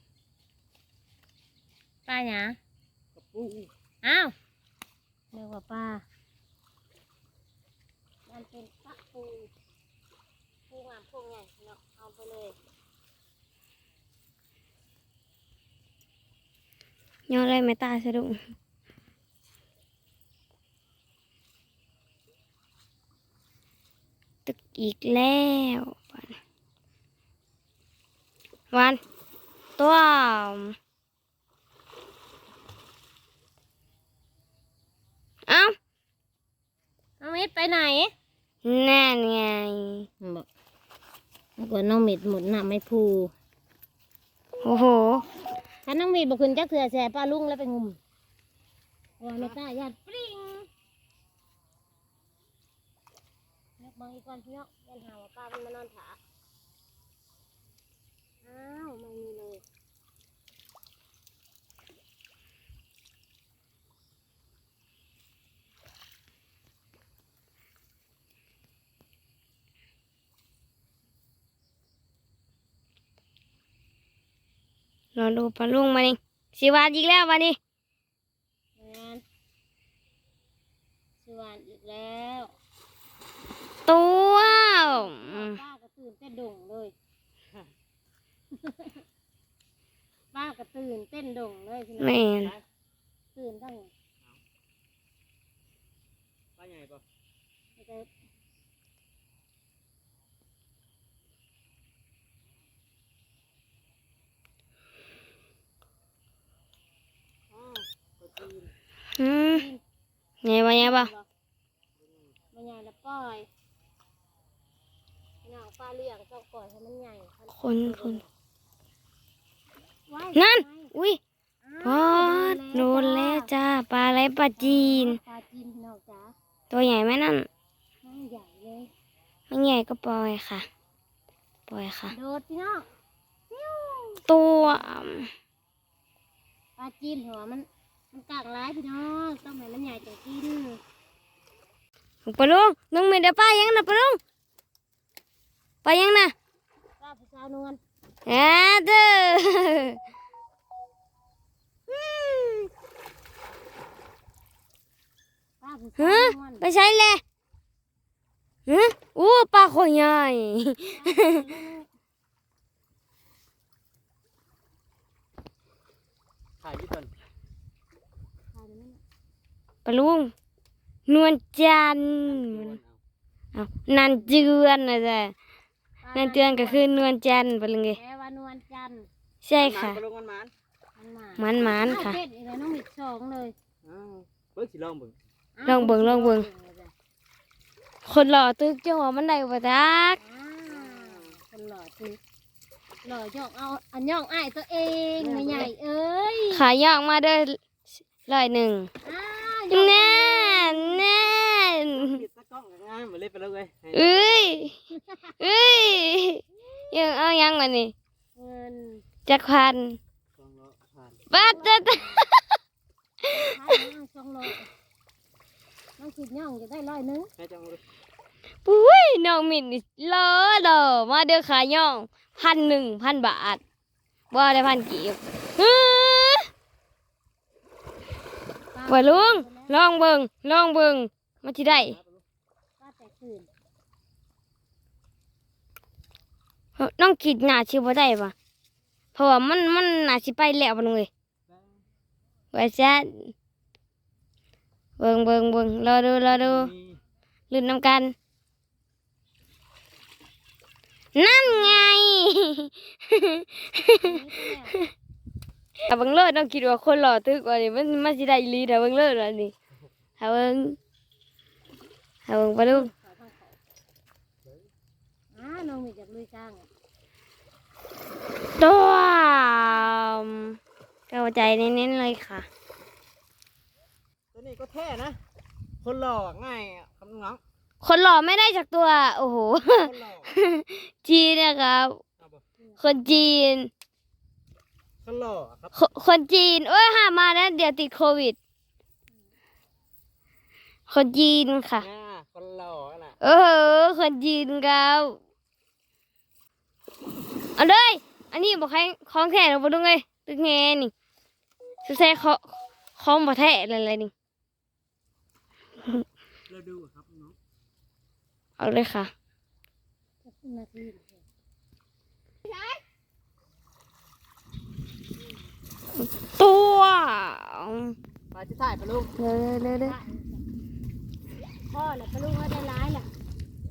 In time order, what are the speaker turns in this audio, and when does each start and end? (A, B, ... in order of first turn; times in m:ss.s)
0:02.1-0:02.6 A
0:03.2-0:03.7 B
0:04.0-0:04.4 A
0:05.3-0:06.0 A
0:08.3-0:09.5 A
0:10.7-0:12.6 A
0:17.3-0:18.4 C
0:24.5-0:26.4 C
0:28.7-0:29.0 C
0:29.8-0:30.8 C
0:35.5-0:35.8 C
0:37.2-0:38.1 A
0:38.6-0:40.1 C
0:40.2-0:40.5 A
0:41.6-0:43.3 A
0:44.6-0:45.3 C
0:45.9-0:48.0 A
0:49.2-0:50.7 A
0:53.8-0:56.2 A
0:58.4-0:59.6 A
1:15.2-1:17.6 C
1:18.8-1:19.2 A
1:21.2-1:22.5 A
1:23.9-1:25.6 C
1:24.8-1:26.9 A
1:28.6-1:29.0 A
1:30.3-1:32.3 A
1:32.0-1:32.5 C
1:33.4-1:33.9 A
1:36.6-1:37.0 B
1:37.8-1:38.1 A
1:47.5-1:48.7 B
1:49.2-1:49.6 C
1:49.5-1:49.8 A
1:50.4-1:51.1 C
1:50.6-1:51.3 A
1:52.0-1:52.3 B
1:52.5-1:53.5 A
1:55.4-1:58.3 A
1:57.6-1:58.2 C
2:00.1-2:00.9 A
2:00.4-2:01.2 C
2:01.6-2:03.5 A
2:01.8-2:05.2 C
2:04.6-2:06.3 A
2:06.7-2:07.5 C
2:08.0-2:08.9 A
2:09.5-2:10.7 C
2:11.7-2:12.1 C
2:12.1-2:12.8 A
2:13.5-2:14.2 A
2:14.3-2:15.3 C
2:16.8-2:20.8 A
2:22.2-2:24.2 C
2:25.8-2:26.3 C
2:27.0-2:27.8 A
2:28.3-2:30.0 C
2:31.9-2:32.7 C
2:35.6-2:36.6 A
2:36.0-2:37.2 C
2:38.7-2:41.4 C
2:40.9-2:41.9 A
2:46.6-2:47.1 B
2:48.5-2:49.0 A
2:49.8-2:50.3 C
2:51.1-2:52.8 C
2:52.2-2:53.0 B
2:53.6-2:55.3 C
2:56.0-2:57.0 A
2:56.2-2:58.0 C
2:58.0-2:59.1 A
2:59.4-3:00.0 C
2:59.6-3:00.5 B
3:01.0-3:03.6 A
3:01.4-3:02.2 C
3:03.8-3:05.2 B
3:05.6-3:06.9 A
3:05.7-3:06.5 C
3:08.0-3:10.2 C
3:10.2-3:12.2 A
3:10.7-3:11.4 B
3:13.0-3:16.6 A
3:15.2-3:15.7 B
3:16.5-3:18.9 C
3:19.0-3:21.0 A
3:19.7-3:22.2 C
3:21.9-3:24.4 B
3:23.9-3:24.8 C
3:24.9-3:25.5 A
3:25.4-3:27.9 C
3:28.4-3:29.0 A
3:29.3-3:30.0 C
3:30.4-3:31.2 B
3:31.3-3:32.5 C
3:31.3-3:32.2 A
3:33.3-3:34.7 A
3:36.0-3:37.3 A
3:37.4-3:37.8 B
3:38.6-3:43.6 C
3:44.3-3:46.5 C
3:48.7-3:49.8 A
3:48.9-3:52.0 C
3:51.6-3:52.2 B
3:52.8-3:53.5 A
3:56.8-3:58.3 C
3:59.2-4:01.1 C
4:02.5-4:03.3 C
4:05.0-4:06.7 C
4:06.3-4:07.0 B
4:07.5-4:08.1 C
4:11.2-4:14.1 C
4:11.6-4:11.8 A
4:14.0-4:14.8 A
4:15.9-4:19.5 C
4:20.2-4:20.8 C
4:22.3-4:22.9 C
4:22.7-4:23.6 A
4:25.3-4:26.7 A
4:28.6-4:30.6 C
4:31.1-4:32.5 C
4:34.3-4:35.2 B
4:35.8-4:37.4 B
4:37.8-4:42.0 C
4:39.8-4:40.3 B
4:42.6-4:43.3 A
4:42.8-4:43.7 C
4:45.0-4:45.8 B
4:45.7-4:48.4 C
4:50.9-4:51.9 C
4:51.8-4:53.2 B
4:53.2-4:55.2 C
4:57.6-5:00.9 C
5:01.8-5:02.5 C
5:03.0-5:04.1 C
5:06.5-5:07.4 B
5:08.6-5:09.1 C
5:10.2-5:11.2 A
5:16.0-5:18.0 C
5:18.3-5:19.1 B
5:19.2-5:20.0 C
5:19.6-5:20.4 A
5:21.7-5:23.1 A